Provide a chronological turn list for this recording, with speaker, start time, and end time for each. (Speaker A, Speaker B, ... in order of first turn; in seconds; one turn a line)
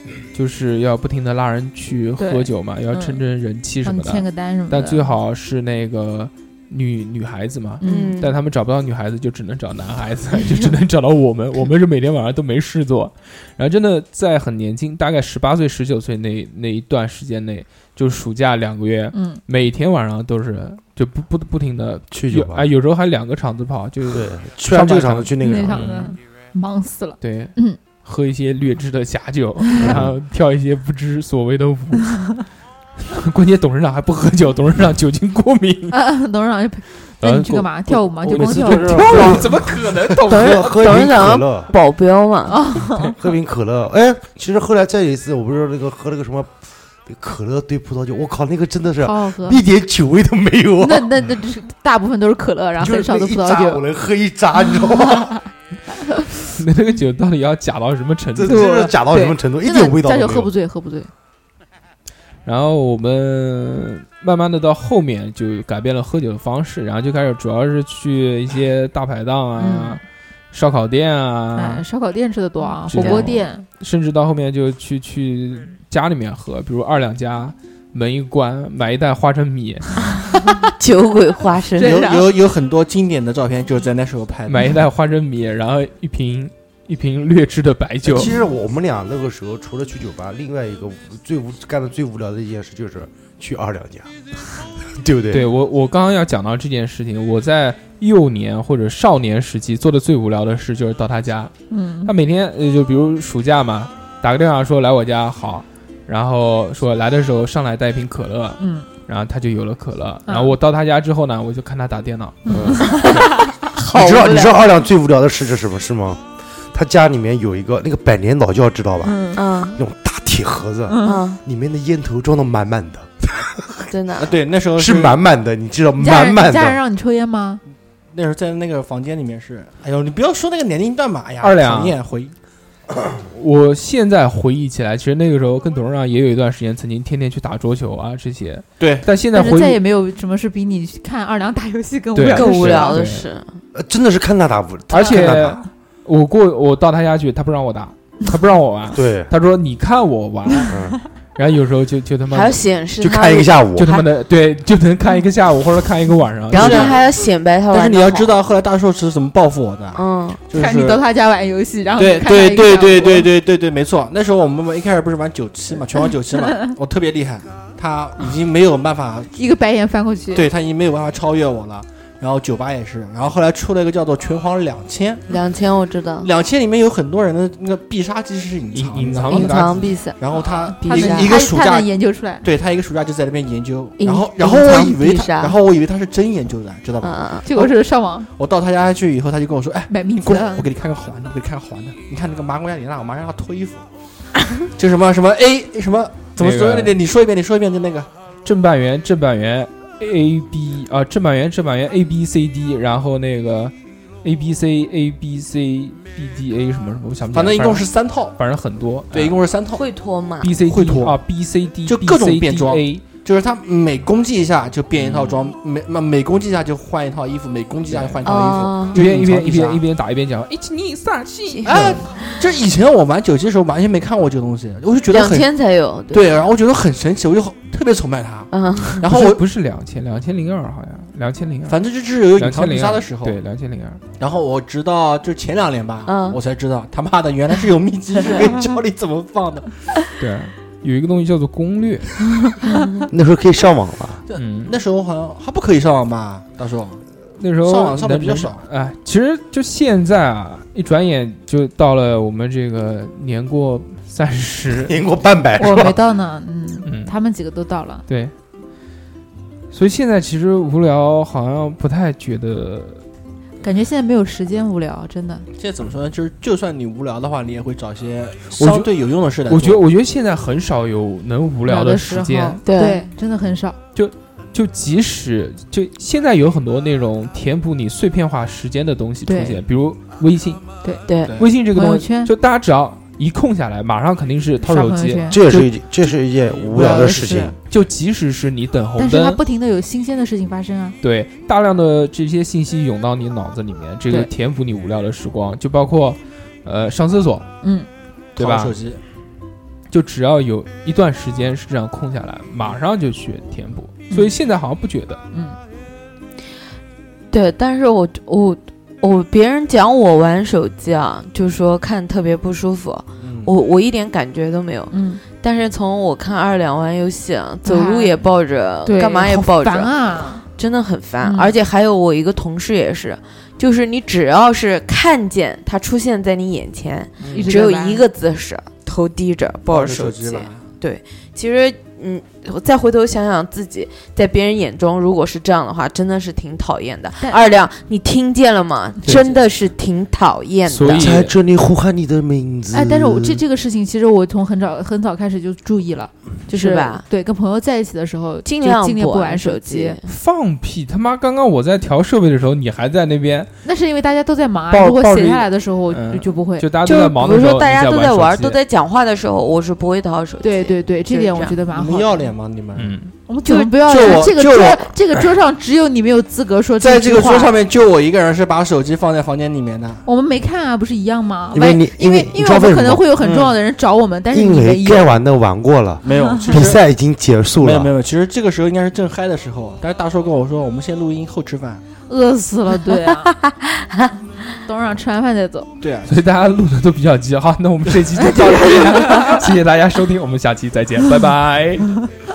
Speaker A: 0.3-26.1
Speaker B: 2.2-3.2
Speaker B: 3.8-5.1
Speaker B: 7.8-8.2
Speaker C: 7.8-8.4
Speaker B: 19.1-19.4
Speaker D: 22.1-22.7
Speaker D: 24.1-25.9
Speaker B: 25.4-27.8
Speaker A: 27.2-32.4
Speaker D: 29.8-30.1
Speaker A: 33.1-36.0
Speaker B: 35.9-39.3
Speaker A: 37.2-41.1
Speaker D: 37.9-41.7
Speaker C: 40.3-42.7
Speaker B: 42.5-43.1
Speaker D: 43.2-46.5
Speaker D: 47.1-51.1
Speaker B: 49.0-49.6
Speaker B: 50.8-53.8
Speaker D: 52.8-55.4
Speaker B: 55.0-55.4
Speaker A: 56.5-58.8
Speaker D: 58.4-60.5
Speaker B: 58.4-61.1
Speaker A: 62.5-70.0
Speaker B: 69.6-70.0
Speaker A: 70.5-71.8
Speaker B: 71.5-73.7
Speaker A: 72.9-80.0
Speaker C: 73.0-73.4
Speaker B: 80.3-80.7
Speaker C: 80.8-82.1
Speaker B: 81.8-82.3
Speaker E: 81.8-84.8
Speaker A: 84.5-88.3
Speaker D: 88.0-94.1
Speaker D: 94.9-95.5
Speaker A: 95.3-101.5
Speaker B: 101.7-102.1
Speaker A: 102.0-112.5
Speaker B: 108.6-108.9
Speaker B: 110.3-110.5
Speaker B: 112.5-113.5
Speaker D: 112.5-126.8
Speaker C: 112.9-114.6
Speaker B: 119.0-119.4
Speaker C: 119.4-119.8
Speaker B: 120.9-121.2
Speaker C: 121.0-121.4
Speaker C: 123.9-124.3
Speaker E: 124.2-125.2
Speaker B: 126.0-127.6
Speaker E: 128.1-132.3
Speaker A: 131.4-132.0
Speaker A: 133.2-139.8
Speaker E: 138.8-139.1
Speaker B: 139.3-143.0
Speaker A: 142.2-143.3
Speaker C: 142.3-143.6
Speaker D: 143.7-145.6
Speaker A: 144.9-150.7
Speaker D: 148.9-149.3
Speaker D: 150.7-151.0
Speaker A: 151.3-152.6
Speaker C: 152.3-154.0
Speaker D: 153.0-154.0
Speaker A: 153.8-157.0
Speaker C: 156.5-158.3
Speaker E: 156.5-157.0
Speaker E: 157.7-161.0
Speaker C: 159.9-160.4
Speaker B: 160.5-163.3
Speaker E: 162.0-169.3
Speaker B: 169.3-170.5
Speaker E: 170.3-175.3
Speaker C: 175.3-176.3
Speaker E: 176.2-181.9
Speaker A: 178.7-180.0
Speaker C: 179.3-180.2
Speaker B: 180.3-182.5
Speaker C: 180.8-181.4
Speaker E: 182.4-187.7
Speaker B: 184.0-184.3
Speaker C: 184.4-185.6
Speaker C: 187.0-187.5
Speaker B: 187.4-188.3
Speaker E: 188.3-193.8
Speaker B: 189.9-190.7
Speaker E: 194.8-198.1
Speaker A: 196.4-196.9
Speaker A: 198.4-209.4
Speaker E: 207.3-208.4
Speaker E: 209.1-209.9
Speaker C: 209.7-210.5
Speaker A: 210.4-213.0
Speaker E: 210.6-211.2
Speaker E: 211.9-219.8
Speaker A: 215.0-215.5
Speaker A: 217.9-218.2
Speaker C: 218.2-219.0
Speaker A: 218.9-222.1
Speaker C: 221.5-222.3
Speaker E: 221.7-225.5
Speaker C: 225.1-226.5
Speaker E: 226.1-229.4
Speaker C: 228.5-229.1
Speaker A: 229.0-231.8
Speaker E: 231.7-233.4
Speaker A: 232.4-234.0
Speaker E: 234.2-239.7
Speaker C: 236.1-236.4
Speaker A: 240.2-242.1
Speaker C: 242.6-243.1
Speaker D: 243.1-244.2
Speaker E: 244.3-247.1
Speaker A: 244.4-244.8
Speaker A: 247.4-255.0
Speaker E: 247.6-248.7
Speaker D: 254.8-256.0
Speaker B: 255.6-258.1
Speaker A: 256.9-257.1
Speaker A: 258.1-258.3
Speaker A: 259.7-263.0
Speaker B: 263.6-265.5
Speaker E: 265.6-269.8
Speaker A: 268.5-268.9
Speaker A: 269.5-272.6
Speaker B: 271.7-273.8
Speaker C: 272.6-273.1
Speaker A: 273.9-280.6
Speaker B: 279.3-279.6
Speaker C: 281.1-281.4
Speaker A: 281.4-285.7
Speaker B: 281.7-282.3
Speaker B: 284.6-285.4
Speaker D: 285.3-287.5
Speaker E: 286.5-287.6
Speaker B: 286.8-287.5
Speaker A: 287.7-289.4
Speaker B: 289.0-291.0
Speaker A: 291.0-297.5
Speaker B: 297.6-297.9
Speaker A: 298.4-298.8
Speaker E: 298.4-299.0
Speaker A: 299.9-305.2
Speaker B: 305.3-305.6
Speaker C: 307.3-320.0
Speaker E: 313.2-313.5
Speaker B: 314.9-315.2
Speaker B: 317.6-318.1
Speaker B: 318.8-320.5
Speaker C: 320.5-341.2
Speaker B: 321.2-321.6
Speaker E: 327.2-327.6
Speaker B: 327.3-328.0
Speaker E: 329.7-330.8
Speaker E: 339.1-339.4
Speaker A: 340.7-341.3
Speaker D: 340.9-343.4
Speaker B: 342.7-350.0
Speaker C: 346.5-347.1
Speaker C: 348.4-350.1
Speaker A: 350.1-353.5
Speaker B: 353.6-356.7
Speaker A: 354.7-358.6
Speaker C: 356.8-361.6
Speaker B: 360.4-362.3
Speaker E: 361.7-363.0
Speaker A: 362.8-363.1
Speaker B: 363.3-367.5
Speaker C: 363.5-364.2
Speaker E: 363.8-364.9
Speaker E: 366.8-370.1
Speaker B: 370.1-375.1
Speaker D: 371.5-373.1
Speaker E: 373.2-373.6
Speaker D: 374.3-377.9
Speaker E: 376.0-376.8
Speaker B: 376.1-376.4
Speaker E: 377.6-381.8
Speaker B: 382.1-383.3
Speaker C: 383.3-384.1
Speaker B: 384.6-385.7
Speaker E: 385.8-386.1
Speaker A: 386.1-391.9